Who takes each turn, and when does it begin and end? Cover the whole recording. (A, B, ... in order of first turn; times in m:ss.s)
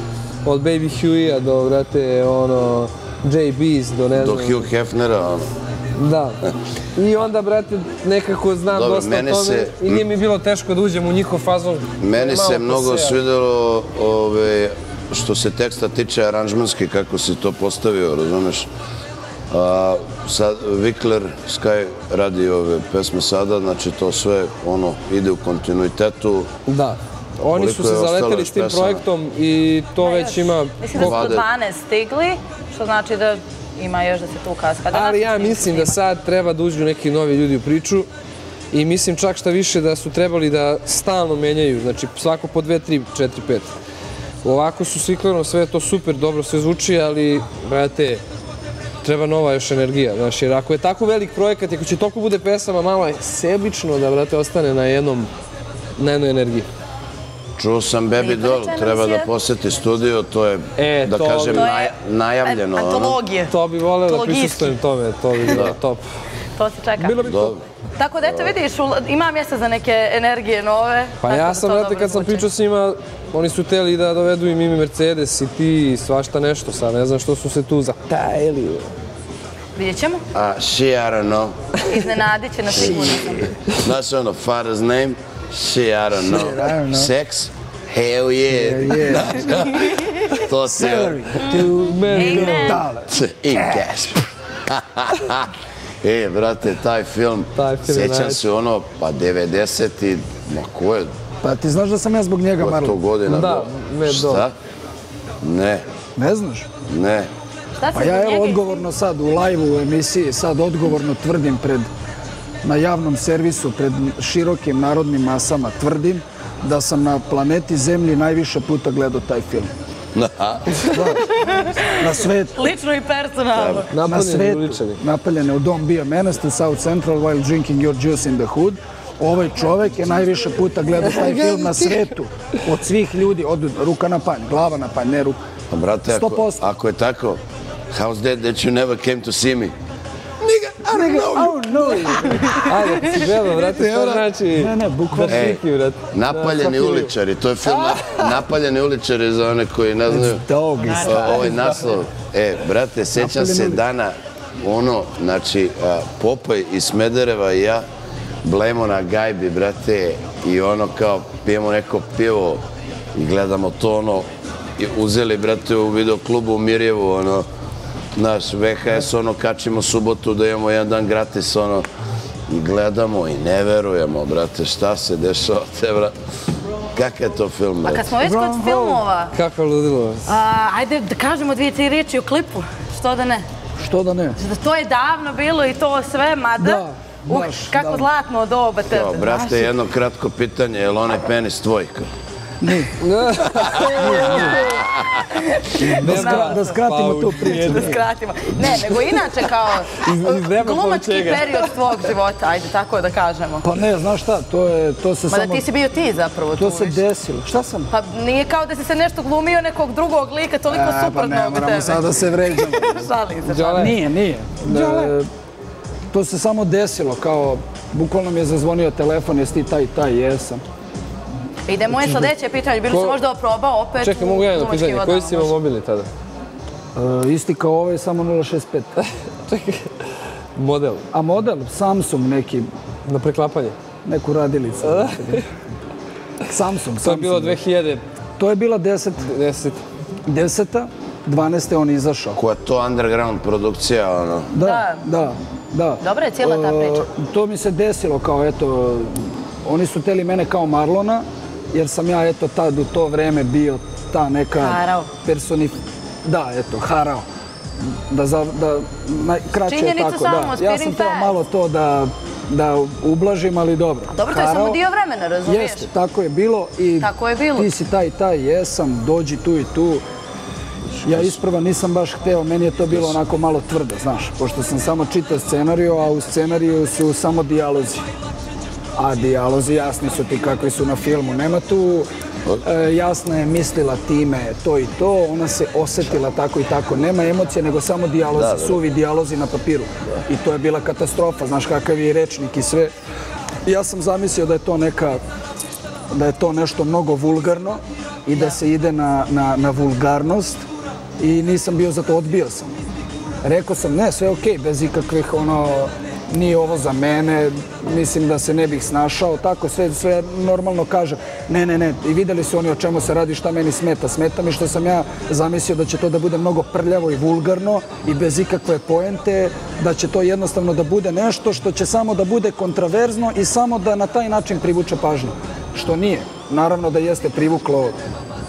0:00.4-0:04.7 A
0:04.1-0:05.5 B
0:05.9-0:06.4 A
0:07.0-0:13.2 A
0:08.7-0:10.0 B
0:12.0-0:18.7 B
0:19.5-0:26.5 B
0:26.6-0:31.4 A
0:27.5-0:29.0 B
0:30.0-0:36.0 C
0:30.9-0:31.4 B
0:34.9-0:38.1 A
0:38.7-0:43.7 A
0:44.4-0:48.2 A
0:49.0-0:55.3 A
0:56.0-0:56.7 A
0:57.6-1:03.2 B
0:58.2-0:59.3 C
1:00.8-1:01.7 A
1:01.5-1:03.5 C
1:03.5-1:06.0 A
1:04.0-1:04.8 C
1:05.4-1:05.8 B
1:06.6-1:07.2 C
1:07.0-1:07.6 A
1:07.2-1:07.6 B
1:08.0-1:12.4 C
1:11.2-1:18.9 A
1:19.7-1:20.2 C
1:20.3-1:21.5 B
1:21.9-1:23.5 C
1:22.7-1:23.2 B
1:22.7-1:23.4 D
1:23.8-1:31.3 B
1:26.1-1:27.1 D
1:28.5-1:29.5 D
1:30.7-1:33.1 D
1:31.4-1:32.8 C
1:31.5-1:32.8 A
1:33.1-1:41.1 B
1:37.6-1:38.4 A
1:41.4-1:43.0 D
1:42.6-1:44.5 B
1:43.2-1:44.5 A
1:45.4-1:45.8 B
1:46.2-1:46.7 D
1:46.9-1:47.3 B
1:47.8-1:48.8 C
1:47.9-1:51.9 D
1:52.6-1:59.7 D
2:00.1-2:00.9 B
2:00.9-2:01.2 D
2:01.2-2:03.9 C
2:02.0-2:02.6 D
2:03.5-2:03.8 B
2:03.9-2:05.0 A
2:04.0-2:15.4 D
2:11.0-2:12.1 A
2:15.7-2:19.7 B
2:16.1-2:16.6 D
2:20.4-2:22.3 B
2:20.9-2:22.6 D
2:22.6-2:27.1 A
2:23.8-2:24.2 B
2:24.5-2:25.5 D
2:25.3-2:30.4 B
2:27.7-2:28.3 A
2:30.1-2:31.5 D
2:31.0-2:37.8 B
2:31.1-2:31.6 A
2:33.1-2:33.8 D
2:38.4-2:42.6 B
2:43.1-2:44.3 B
2:44.8-2:47.4 B
2:48.2-2:51.8 B
2:52.5-2:56.1 B
2:56.9-2:58.2 B
2:57.8-2:59.4 C
2:58.2-2:59.0 D
2:59.3-3:00.3 A
3:00.2-3:03.4 C
3:03.8-3:04.4 D
3:04.4-3:09.7 C
3:06.6-3:08.1 D
3:08.8-3:12.1 B
3:12.6-3:13.0 D
3:13.0-3:14.8 A
3:13.8-3:15.1 B
3:13.9-3:14.6 D
3:15.5-3:16.6 C
3:15.8-3:18.0 D
3:15.9-3:18.0 A
3:17.4-3:23.6 C
3:18.9-3:19.2 A
3:20.0-3:21.7 A
3:23.6-3:25.7 D
3:25.3-3:27.0 C
3:26.5-3:27.9 D
3:27.9-3:34.0 C
3:30.7-3:33.0 D
3:33.4-3:34.0 A
3:33.8-3:35.2 D
3:34.6-3:35.1 A
3:36.1-3:40.6 D
3:41.6-3:45.5 C
3:41.9-3:42.2 D
3:42.9-3:43.2 A
3:44.0-3:46.1 A
3:46.9-3:48.9 D
3:49.0-3:49.9 A
3:50.6-3:51.0 A
3:51.1-3:52.7 D
3:53.0-3:53.8 A
3:54.0-3:55.4 D
3:54.8-3:55.4 A
3:56.4-3:57.6 D
3:57.0-3:58.0 A
3:58.4-3:59.3 D
3:59.2-3:59.8 A
4:00.2-4:02.4 D
4:02.3-4:04.5 B
4:04.5-4:17.2 D
4:04.6-4:05.0 C
4:06.0-4:07.0 C
4:14.6-4:15.1 C
4:18.1-4:24.8 D
4:19.7-4:21.4 C
4:24.1-4:25.9 C
4:25.4-4:30.0 D
4:27.0-4:27.7 C
4:31.0-4:31.4 B
4:31.0-4:38.0 D
4:32.9-4:33.2 B
4:39.0-4:42.1 D
4:42.6-4:52.9 D
4:48.3-4:48.8 B
4:53.6-4:55.2 D
4:56.1-5:00.6 D
5:01.2-5:02.7 D
5:03.4-5:28.0 D